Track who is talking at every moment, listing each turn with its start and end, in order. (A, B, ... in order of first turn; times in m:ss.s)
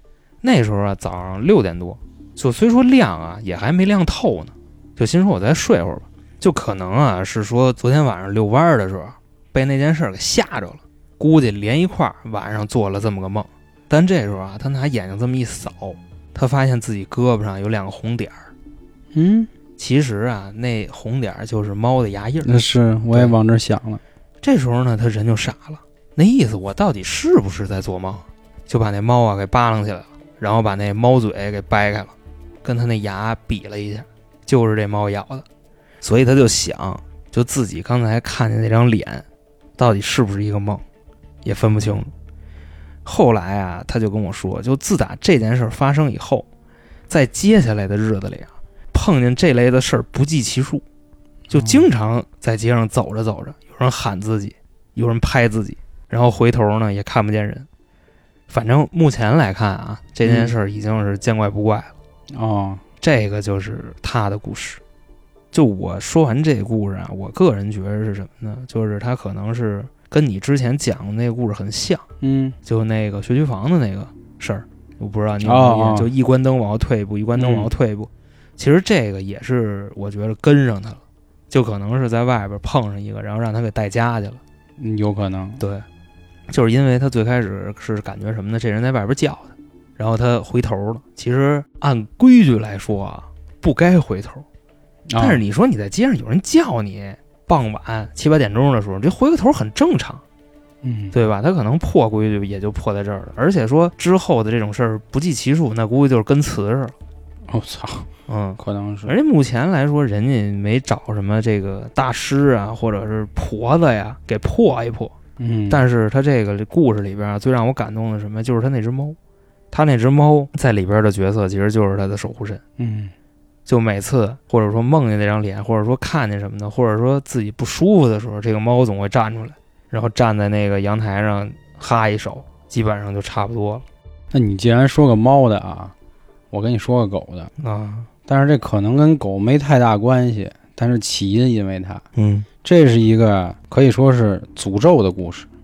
0:00.4-0:18.5 A
0:19.1-0:19.5 B
0:19.8-0:22.6 A
0:22.4-0:24.0 B
0:24.4-0:35.4 A
0:36.0-0:39.2 A
0:39.8-0:40.8 A
0:41.4-0:42.1 A
0:43.0-0:46.4 A
0:47.1-0:50.8 A
0:51.5-0:51.8 B
0:51.5-0:57.7 A
0:58.5-1:01.9 A
1:00.2-1:00.5 B
1:02.3-1:02.8 B
1:03.0-1:04.8 A
1:05.5-1:12.0 A
1:12.2-1:12.6 B
1:12.6-1:24.4 A
1:15.4-1:16.1 B
1:17.4-1:17.7 B
1:24.8-1:25.6 B
1:25.6-1:25.8 A
1:26.5-1:34.4 A
1:35.1-1:35.4 B
1:35.2-1:40.2 A
1:40.8-1:41.2 B
1:41.1-1:47.0 A
1:47.5-1:49.1 B
1:48.3-1:55.1 A
1:55.4-1:55.8 B
1:55.7-1:59.2 A
1:59.7-2:02.6 A
2:02.8-2:03.1 B
2:03.6-2:13.8 A
2:14.3-2:15.9 B
2:16.5-2:17.5 B
2:17.6-2:18.1 A
2:18.3-2:22.0 B
2:22.2-2:22.5 A
2:22.6-2:25.5 B